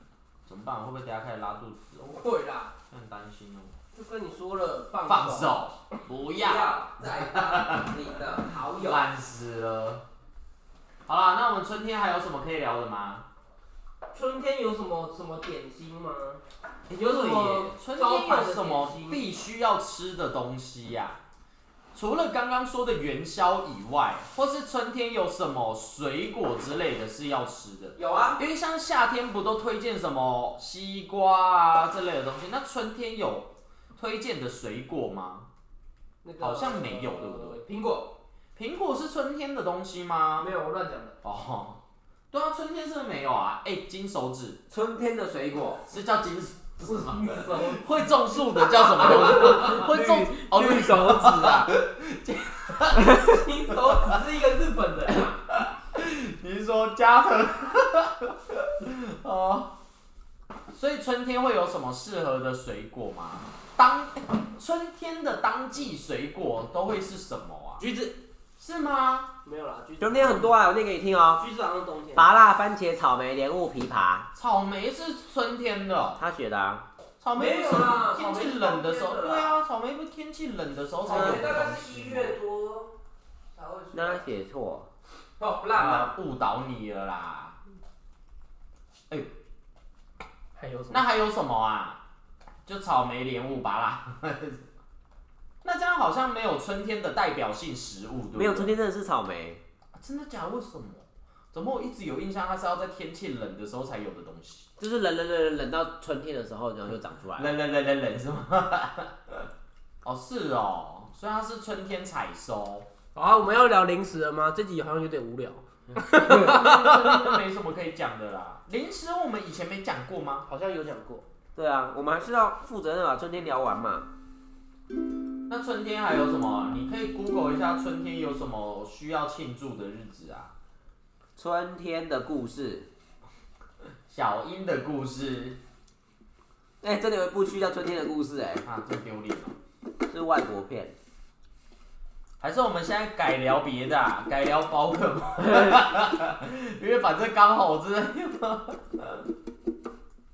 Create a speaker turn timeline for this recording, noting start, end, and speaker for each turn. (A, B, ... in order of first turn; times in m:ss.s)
0:00.4-0:02.2 A
0:02.0-0:02.7 B
0:02.9-0:03.7 A
0:03.9-0:05.6 B
0:05.0-0:07.9 A
0:06.4-0:09.1 C
0:08.8-0:10.0 A
0:11.1-0:13.2 A
0:14.1-0:16.4 B
0:16.9-0:21.2 A
0:16.9-0:19.3 B
0:21.9-0:35.5 A
0:28.0-0:28.4 C
0:36.2-0:38.1 B
0:36.4-0:37.6 A
0:38.6-0:40.5 A
0:40.4-0:41.2 B
0:41.2-0:41.8 A
0:42.3-0:44.6 A
0:44.7-0:45.8 C
0:45.9-0:54.2 A
0:46.9-0:48.0 B
0:49.0-0:50.1 C
0:49.0-0:51.7 B
0:53.0-0:55.4 B
0:55.5-0:59.7 A
1:00.7-1:07.8 A
1:07.8-1:08.2 B
1:08.6-1:09.3 A
1:09.4-1:10.5 B
1:10.0-1:11.4 C
1:11.4-1:12.3 B
1:12.1-1:14.3 C
1:14.3-1:16.2 A
1:16.2-1:16.8 C
1:17.2-1:22.4 A
1:17.3-1:19.6 B
1:21.0-1:22.9 B
1:21.1-1:21.4 C
1:23.5-1:24.2 B
1:23.9-1:24.9 C
1:25.4-1:26.1 B
1:25.7-1:27.6 A
1:30.5-1:31.0 B
1:30.9-1:32.0 A
1:32.6-1:34.6 A
1:35.6-1:38.7 A
1:38.4-1:39.6 C
1:39.9-1:44.7 A
1:44.8-1:47.5 C
1:47.4-1:49.5 A
1:50.0-1:52.9 A
1:53.1-1:57.4 B
1:56.0-2:00.4 A
2:00.5-2:01.2 B
2:01.5-2:04.1 C
2:05.5-2:10.5 A
2:11.4-2:12.9 C
2:14.1-2:15.6 A
2:16.8-2:18.6 C
2:18.6-2:19.6 A
2:20.1-2:20.9 C
2:22.4-2:29.2 A